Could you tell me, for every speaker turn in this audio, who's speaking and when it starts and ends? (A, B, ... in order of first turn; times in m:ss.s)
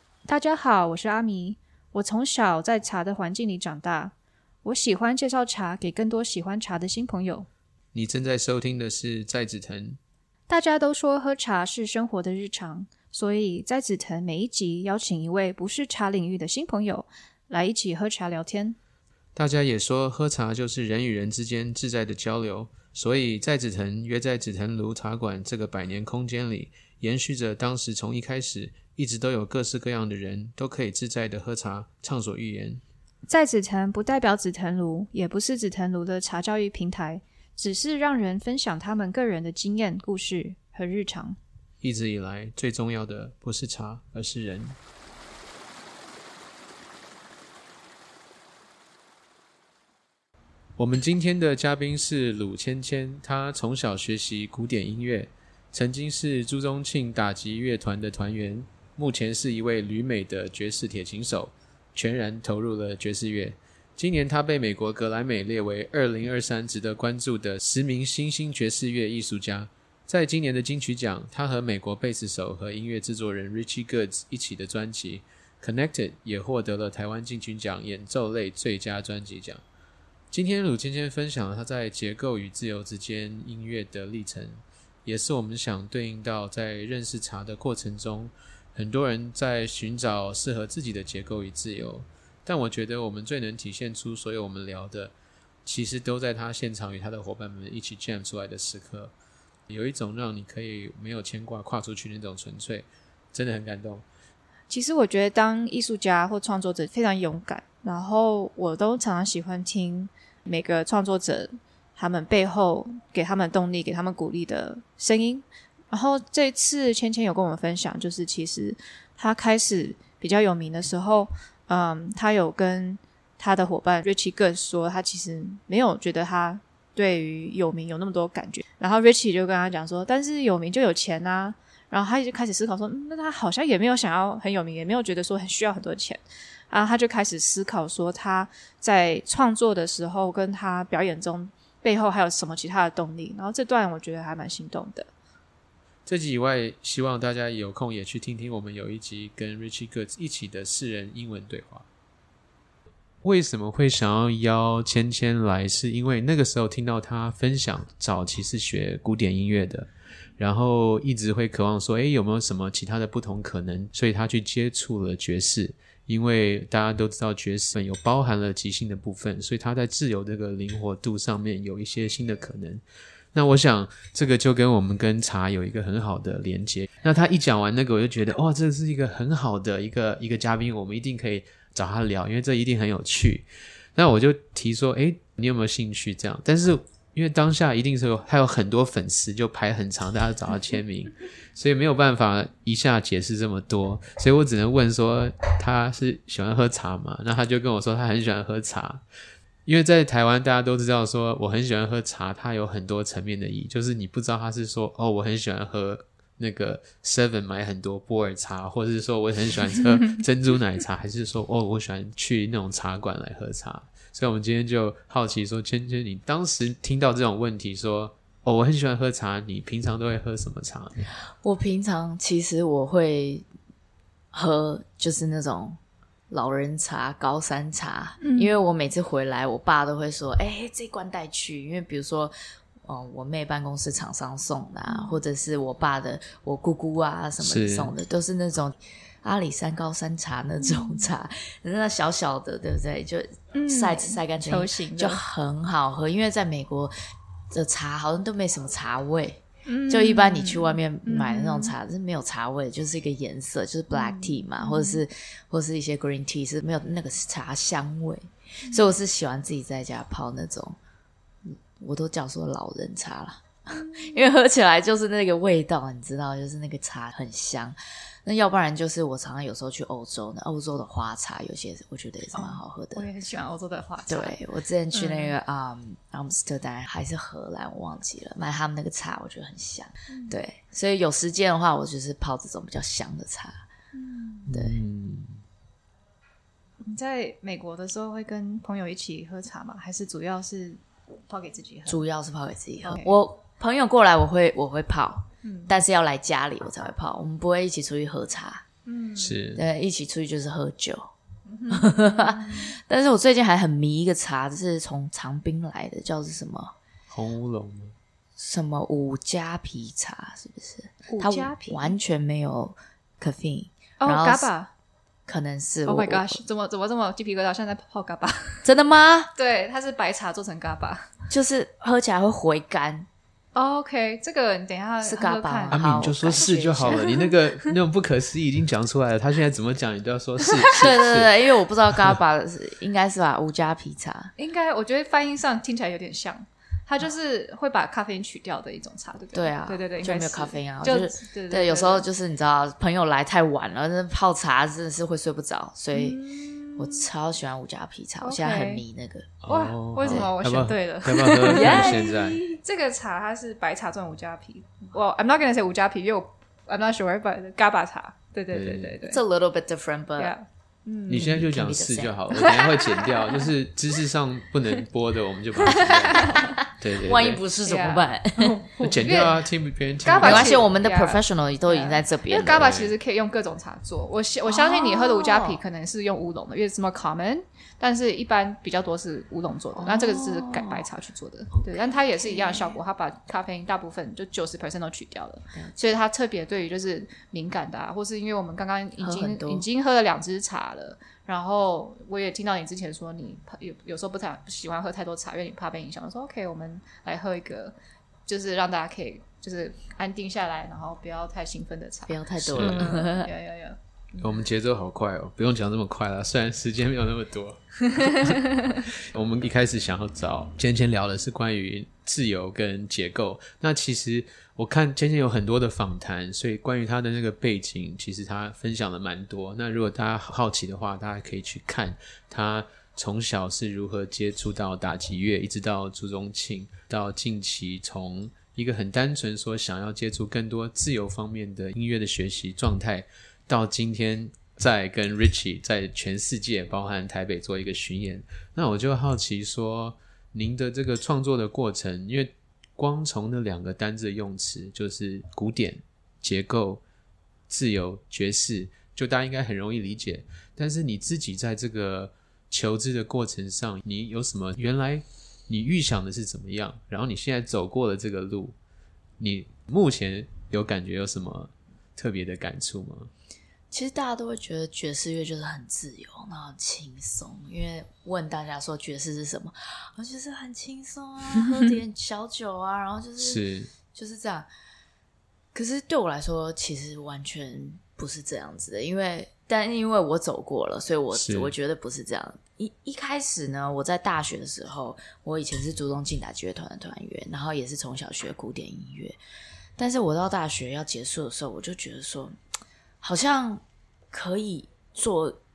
0:00.3-0:07.5 A
0:07.9-0:10.0 B
0:10.5-0:18.8 A
0:19.4-0:32.8 B
0:33.3-0:41.4 A
0:41.8-0:44.8 B
0:50.8-1:19.6 B
1:20.3-1:35.1 B
1:35.6-1:39.1 B
1:39.7-1:44.0 B
1:44.7-2:25.1 A
2:26.0-2:31.8 B
2:33.2-2:52.8 B
2:53.3-3:19.0 B
3:19.6-3:41.1 B
3:41.4-3:43.5 C
3:44.3-3:45.8 C
3:46.3-3:52.3 C
3:48.2-3:48.5 A
3:52.8-4:06.9 C
3:54.9-3:55.2 A
3:57.4-3:57.9 B
4:00.6-4:01.1 A
4:03.5-4:05.2 A
4:07.5-4:20.8 C
4:09.6-4:11.7 A
4:13.9-4:15.0 A
4:18.6-4:18.9 A
4:21.4-4:33.1 C
4:23.7-4:24.2 A
4:32.3-4:34.4 A
4:34.1-4:43.6 C
4:34.9-4:35.3 A
4:40.1-4:40.4 A
4:43.9-4:44.4 A
4:44.5-4:45.4 B
4:44.5-4:44.8 C
4:46.8-4:52.0 A
4:51.9-4:58.6 C
4:52.8-4:53.1 A
4:55.4-4:55.7 A
4:58.8-4:59.4 A
4:59.2-4:59.6 B
4:59.5-5:01.1 C
5:01.5-5:02.8 A
5:01.7-5:06.7 C
5:07.1-5:07.9 B
5:08.4-5:14.5 C
5:11.1-5:11.9 A
5:14.0-5:14.7 A
5:15.3-5:16.4 C
5:15.8-5:18.6 A
5:18.6-5:19.3 C
5:19.3-5:21.1 A
5:21.3-5:23.1 C
5:23.5-5:27.7 A
5:25.0-5:27.2 C
5:25.7-5:31.4 B
5:30.8-5:34.3 C
5:34.4-5:42.0 A
5:39.3-5:46.2 C
5:45.9-5:47.0 A
5:46.8-5:49.3 C
5:48.2-5:48.8 A
5:49.4-5:52.4 B
5:49.5-5:59.2 A
5:51.4-5:52.6 C
5:58.5-5:59.0 B
5:59.0-6:00.3 C
6:00.2-6:01.3 A
6:01.1-6:02.3 C
6:01.1-6:07.4 B
6:02.3-6:03.5 A
6:05.6-6:06.6 A
6:06.2-6:08.6 C
6:07.6-6:09.4 A
6:08.8-6:10.6 B
6:10.0-6:37.7 A
6:10.1-6:12.7 C
6:12.5-6:12.9 B
6:14.5-6:15.6 C
6:19.8-6:20.9 C
6:21.5-6:22.8 C
6:25.5-6:25.9 C
6:29.0-6:29.6 C
6:38.2-6:43.8 A
6:42.1-6:43.3 C
6:42.4-6:43.0 B
6:44.2-7:26.8 B
7:27.5-7:38.6 B
7:39.2-7:43.1 B
7:43.7-7:53.4 C
7:53.2-7:53.7 B
7:53.9-7:54.5 C
7:55.5-8:09.2 C
8:01.1-8:01.5 B
8:09.8-8:12.3 C
8:13.0-8:15.4 C